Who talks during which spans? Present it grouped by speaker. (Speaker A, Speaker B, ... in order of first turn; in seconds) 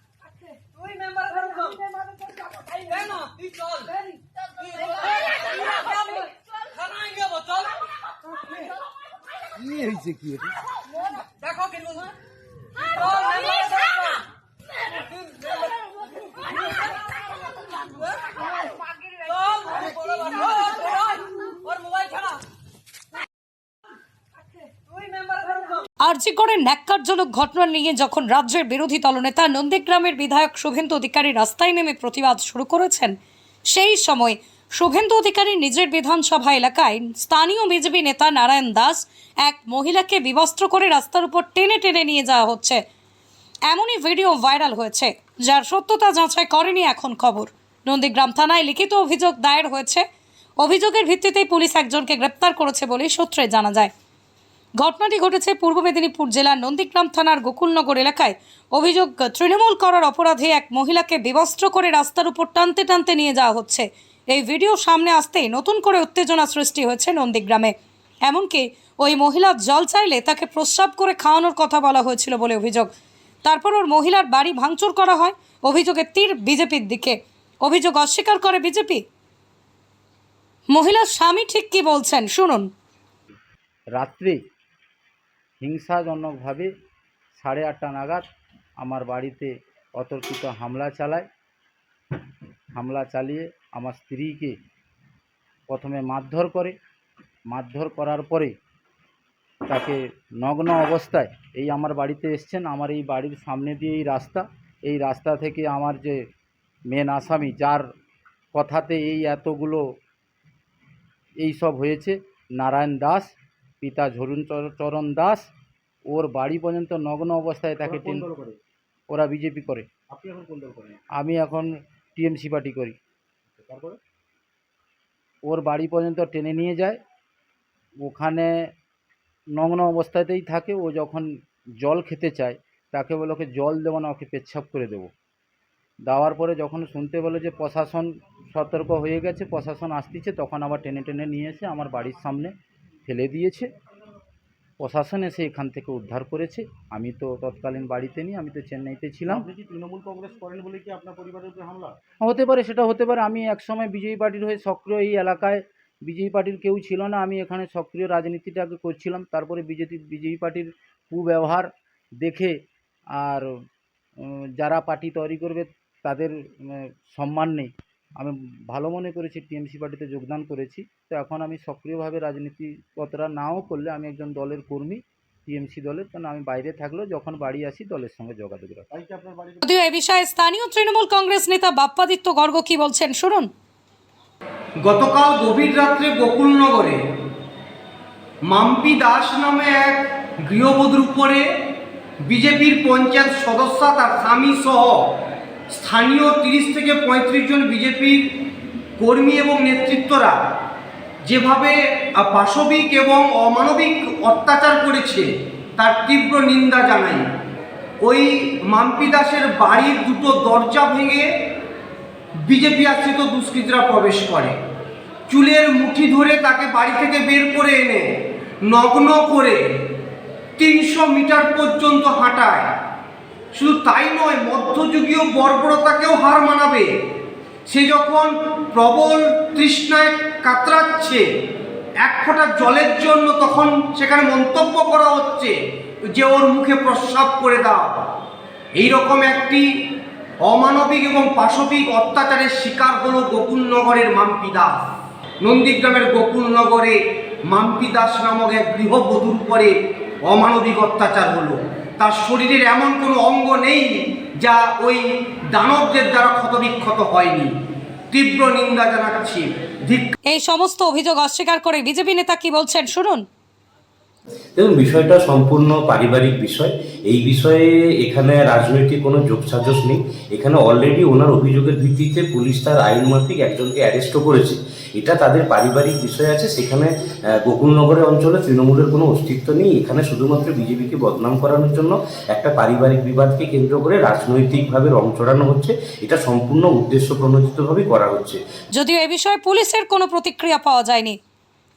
Speaker A: 0.7-2.1, 2.7-3.9, 4.8-6.2, 6.8-7.5, 11.5-12.0, 12.8-14.1, 19.1-22.3, 24.7-25.7
Speaker B: 26.0-33.1, 33.7-42.8, 43.7-50.0, 50.6-53.9, 54.8-67.7, 68.2-72.9, 73.4-79.0, 80.7-82.7, 179.6-183.5, 260.2-263.2, 288.7-291.2
Speaker C: 83.9-84.4, 85.6-86.7, 87.3-88.2, 88.8-91.2, 92.8-94.5, 95.7-96.7, 97.5-98.5, 99.7-106.2, 106.9-107.8, 108.5-109.8, 111.4-115.5, 116.1-118.3, 119.1-119.9, 121.2-123.0, 125.4-127.0, 128.0-128.5, 129.6-135.1, 136.1-142.5, 143.1-143.7, 144.8-149.5, 152.2-162.6, 163.2-163.5, 164.2-178.9
Speaker D: 117.8-118.6, 120.1-121.0, 123.5-124.0, 149.3-151.9, 178.9-179.6
Speaker E: 184.8-187.0, 188.5-191.4, 192.3-195.0, 195.7-198.3, 199.0-200.3, 201.3-207.2, 208.0-211.2, 212.5-214.6, 215.3-218.0, 218.7-219.6, 220.6-222.7, 223.6-226.9, 227.7-231.2, 232.0-235.5, 236.1-237.9, 238.8-239.6, 240.4-244.8, 245.4-246.9, 247.5-249.7, 250.2-257.5, 258.1-260.1
Speaker F: 264.6-276.9, 277.4-288.4